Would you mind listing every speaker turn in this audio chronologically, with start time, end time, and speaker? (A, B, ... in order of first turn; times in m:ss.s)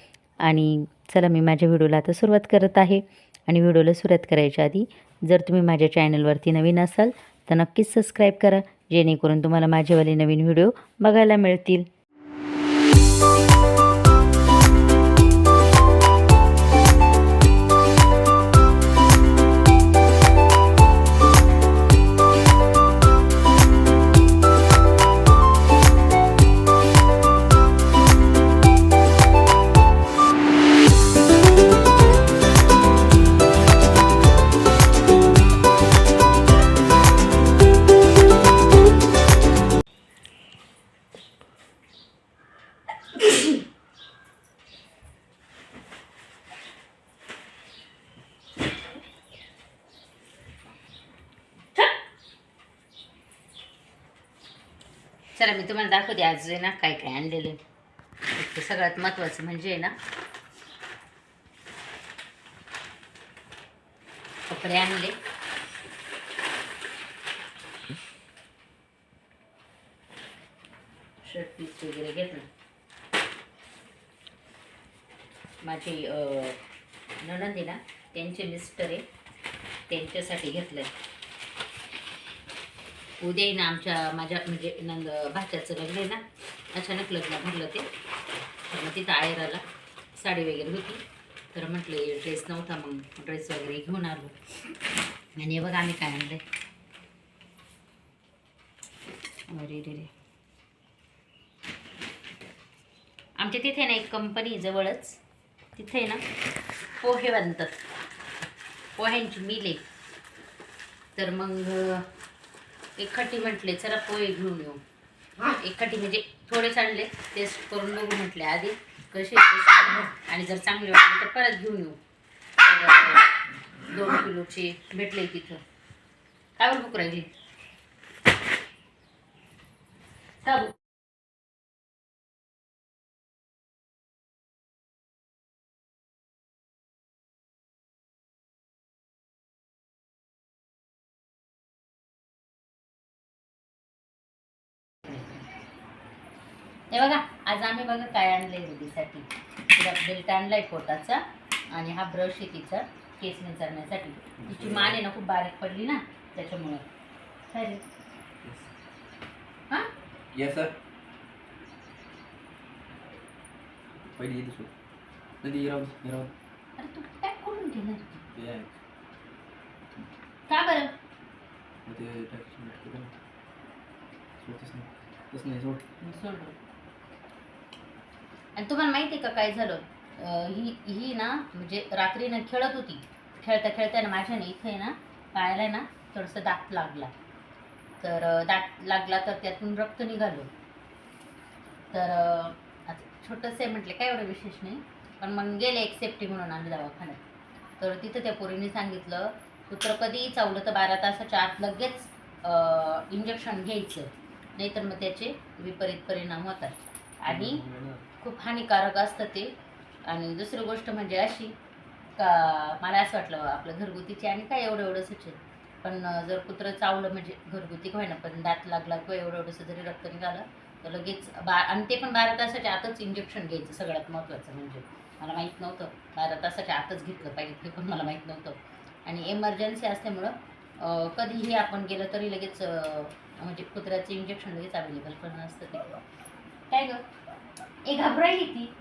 0:00.4-0:11.9 A
0:55.4-0:57.6 A
0:58.3-1:00.0 A
1:04.5-1:05.2 A
1:11.2-1:12.5 A
1:15.6-1:16.6 A
1:17.2-1:19.0 A
1:19.9-1:20.9 A
1:23.2-1:27.9 A
1:28.7-1:29.6 A
1:30.2-1:31.0 A
1:31.5-1:34.3 A
1:35.3-1:36.4 A
1:39.5-1:40.1 A
1:43.4-1:45.2 A
1:45.8-1:46.2 A
1:47.0-1:47.8 A
1:49.0-1:49.8 A
1:51.2-1:52.1 A
1:53.0-1:54.8 A
1:55.5-2:02.0 A
2:02.6-2:03.3 A
2:03.9-2:05.6 A
2:06.6-2:07.3 A
2:10.4-2:10.8 A
2:26.9-2:36.8 A
2:34.4-2:35.0 B
2:37.5-2:37.8 A
2:38.4-2:38.7 B
2:40.3-2:40.7 B
2:44.1-2:44.7 B
2:45.4-2:46.3 B
2:46.8-2:48.3 A
2:48.3-2:48.7 B
2:50.5-2:50.9 A
2:51.8-2:53.1 B
2:54.4-2:55.8 B
2:56.0-2:56.6 A
2:58.6-3:07.1 A
3:08.0-3:10.5 A
3:11.9-3:17.2 A
3:17.8-3:27.6 A
3:27.2-3:28.1 B
3:28.2-3:29.5 A
3:30.0-3:31.5 A
3:32.2-3:56.0 A
3:56.7-3:57.0 A
3:57.8-3:58.7 A